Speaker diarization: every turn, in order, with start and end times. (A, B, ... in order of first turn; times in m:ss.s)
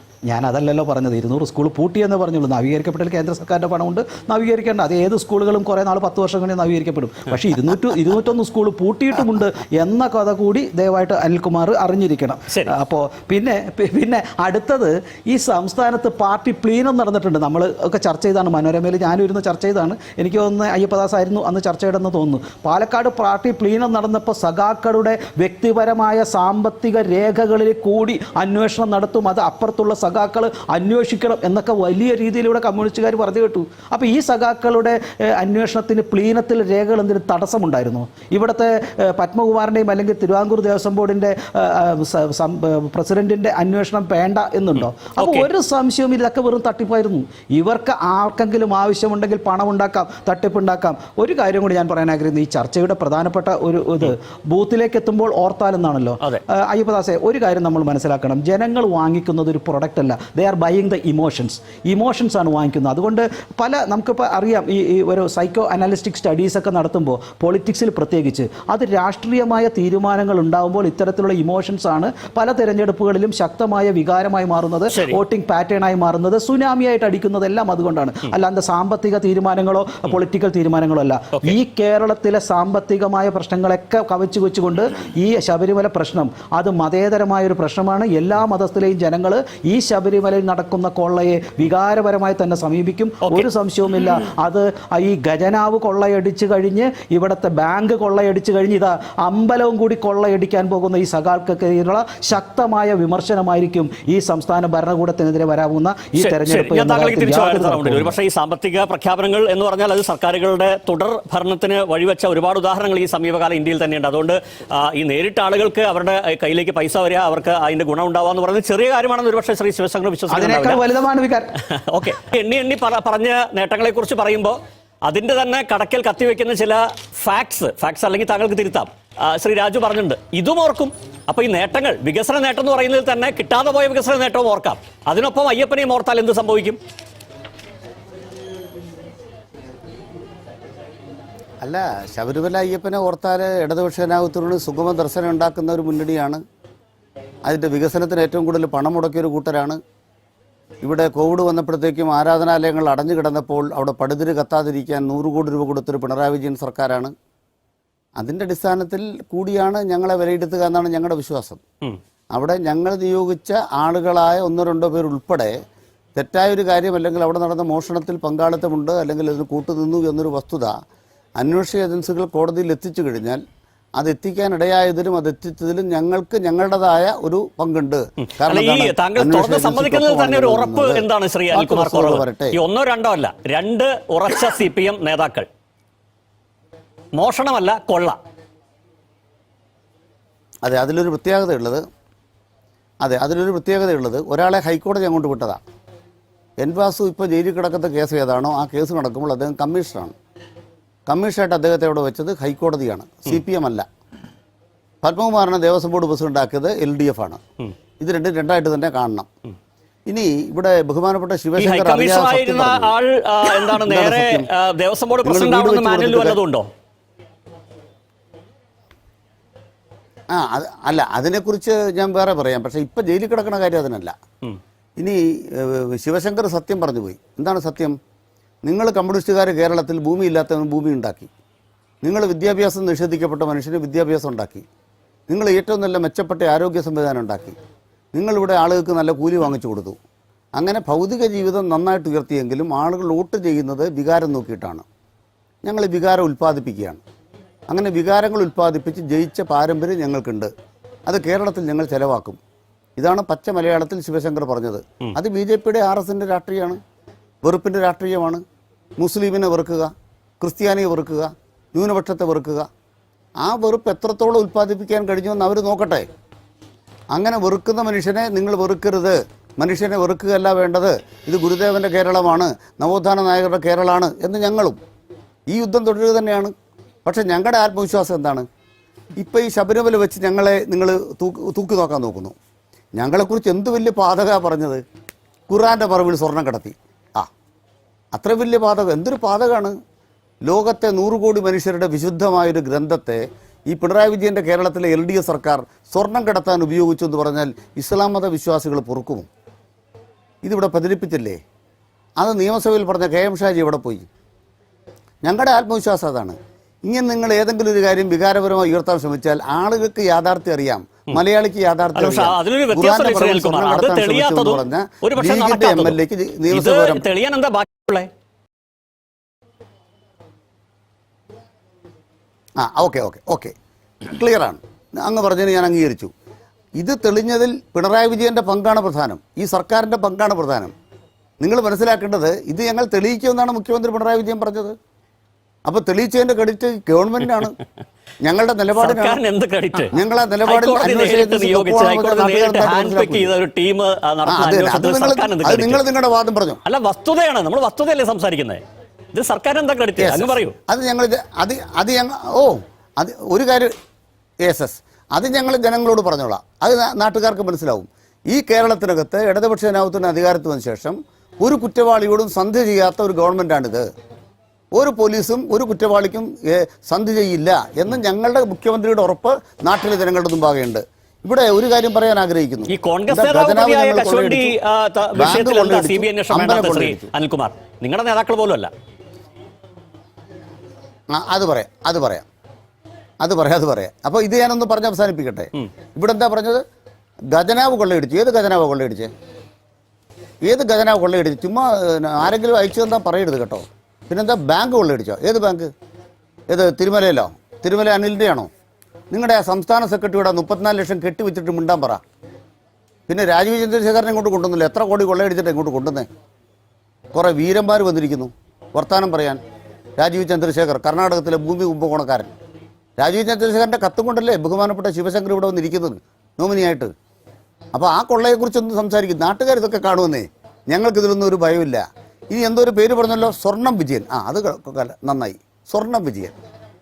0:00.3-1:48.2 A
0:45.2-0:45.5 B
1:14.9-1:15.2 B
1:46.2-2:00.8 B
2:00.3-2:01.6 A
2:01.7-2:16.8 B
2:21.6-2:26.4 C
2:27.4-2:29.8 C
2:30.8-2:37.1 C
2:38.2-2:41.6 C
2:42.3-2:45.5 C
2:46.2-2:50.7 C
2:51.4-2:53.4 C
2:54.0-3:02.6 C
2:58.4-3:05.5 B
3:07.2-3:08.2 B
3:10.6-3:11.8 C
3:13.0-3:15.6 C
3:16.6-3:20.1 C
3:21.1-3:23.8 C
3:25.0-3:27.4 C
3:28.0-3:29.3 C
3:30.1-3:32.9 C
3:31.6-3:36.7 B
3:33.7-3:34.5 C
3:35.2-3:36.4 C
3:40.3-3:44.1 C
3:45.0-3:48.0 C
3:48.6-3:51.3 C
3:52.0-3:54.6 C
3:55.3-3:57.6 C
3:58.1-4:00.0 C
4:00.6-4:04.8 C
4:05.6-4:07.0 C
4:07.7-4:10.5 C
4:11.0-4:12.4 C
4:13.0-4:16.8 C
4:17.4-4:18.4 C
4:19.0-4:22.7 C
4:23.4-4:26.1 C
4:27.1-4:34.8 C
4:35.5-4:36.5 C
4:37.0-4:38.4 C
4:39.2-4:42.3 C
4:43.0-4:44.8 C
4:45.5-4:47.3 C
4:48.1-4:49.7 C
4:50.4-4:59.3 C
5:00.4-5:01.4 C
5:02.2-5:04.0 C
5:05.2-5:17.0 C
5:12.0-5:18.1 B
5:22.6-5:23.5 C
5:24.0-5:26.1 C
5:26.8-5:30.7 C
5:31.4-5:34.7 C
5:35.6-5:37.6 C
5:38.2-5:39.2 C
5:38.8-5:45.8 B
5:39.9-5:43.3 C
5:44.2-5:46.6 C
5:46.6-5:48.6 B
5:49.1-5:50.5 B
5:50.0-5:53.7 C
5:54.4-6:03.8 C
6:04.7-6:14.5 C
6:12.7-6:18.7 B
6:15.2-6:17.1 C
6:21.1-6:22.2 C
6:23.2-6:26.6 C
6:27.3-6:29.1 C
6:30.4-6:35.7 C
6:36.5-6:38.5 C
6:39.1-6:42.0 C
6:43.1-6:46.0 C
6:47.1-6:49.4 C
6:50.0-6:52.3 C
6:53.0-6:56.9 C
6:57.7-7:06.4 C